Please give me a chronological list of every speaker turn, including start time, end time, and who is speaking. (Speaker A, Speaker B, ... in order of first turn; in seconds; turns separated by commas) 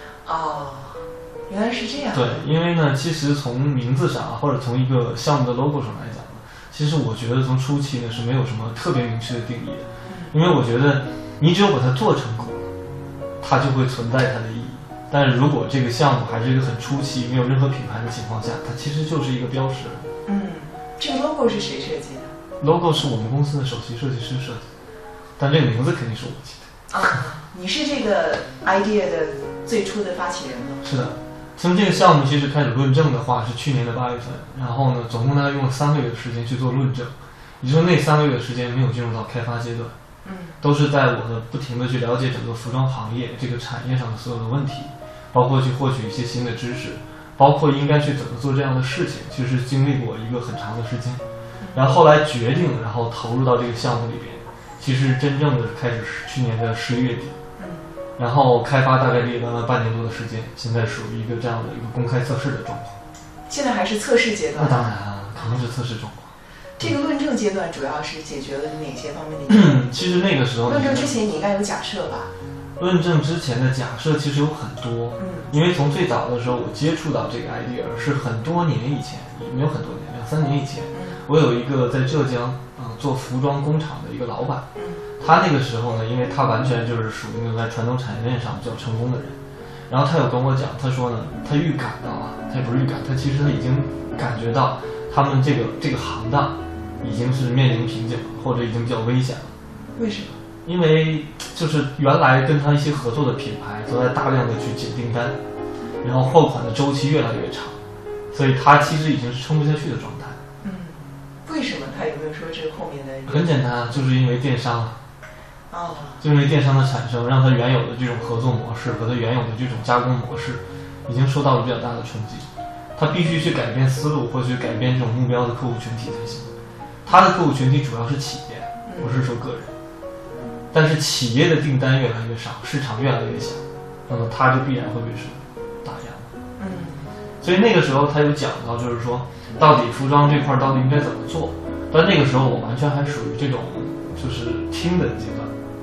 Speaker A: 0.2-2.5, Speaker B: 2.1-12.7, Speaker A: 10.1-10.3, Speaker B: 13.4-20.1, Speaker A: 20.2-22.3, Speaker B: 22.6-24.7, Speaker B: 25.4-26.7, Speaker A: 26.9-30.8, Speaker B: 30.8-39.9, Speaker A: 40.2-40.6, Speaker B: 40.6-51.2, Speaker A: 51.6-52.0, Speaker B: 51.7-57.4, Speaker A: 57.6-57.9, Speaker B: 58.2-63.0, Speaker A: 63.5-65.6, Speaker B: 64.5-66.9, Speaker A: 66.8-69.8, Speaker B: 69.5-71.2, Speaker A: 70.7-72.3, Speaker B: 72.8-84.7, Speaker A: 75.2-75.5, Speaker A: 80.9-81.2, Speaker A: 84.8-85.0, Speaker B: 85.2-99.5, Speaker A: 100.0-100.3, Speaker B: 100.6-105.4, Speaker B: 106.0-107.8, Speaker B: 108.3-110.4, Speaker A: 110.6-113.6, Speaker B: 113.3-115.0, Speaker A: 115.7-116.2, Speaker B: 116.2-126.5, Speaker B: 127.0-129.7, Speaker A: 128.8-129.2, Speaker B: 130.7-136.3, Speaker A: 136.6-137.1, Speaker B: 137.4-145.5